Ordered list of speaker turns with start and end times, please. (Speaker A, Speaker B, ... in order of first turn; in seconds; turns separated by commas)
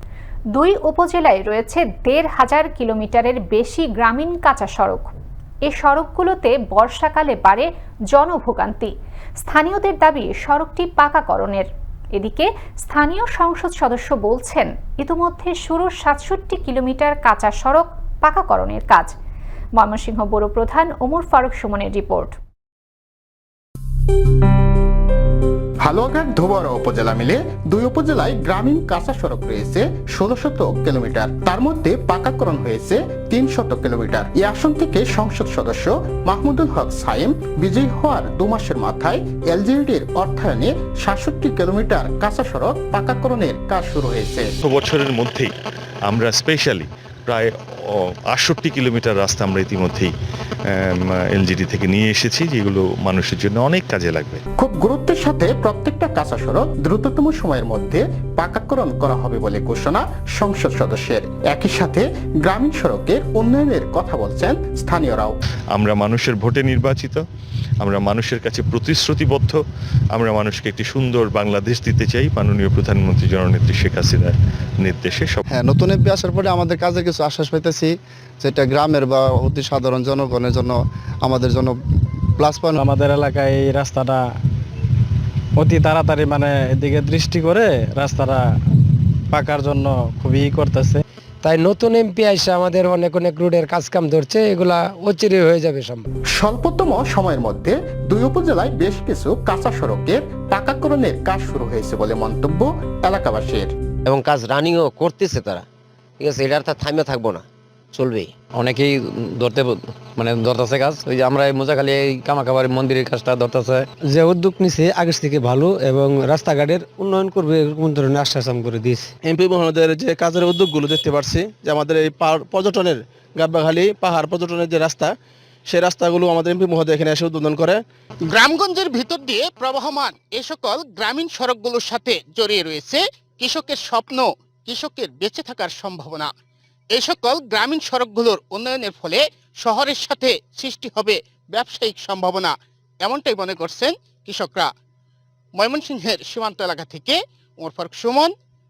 Speaker A: 0.5-5.1, Speaker A: 5.7-19.1, Speaker A: 19.8-22.4, Speaker B: 25.8-44.5, Speaker C: 44.6-45.5, Speaker C: 46.1-50.1, Speaker C: 50.7-54.4, Speaker B: 54.6-65.3, Speaker C: 65.7-67.2, Speaker C: 67.8-69.6, Speaker C: 70.1-75.4, Speaker D: 75.5-81.8, Speaker D: 82.3-82.8, Speaker E: 82.8-84.2, Speaker E: 85.6-88.4, Speaker E: 89.3-91.0, Speaker F: 91.4-96.0, Speaker B: 96.4-103.7, Speaker G: 104.0-105.7, Speaker G: 106.2-108.3, Speaker H: 108.5-113.9, Speaker F: 114.0-119.1, Speaker I: 119.2-125.1, Speaker I: 125.7-127.8, Speaker J: 128.2-136.3, Speaker J: 136.9-144.7, Speaker J: 145.5-148.3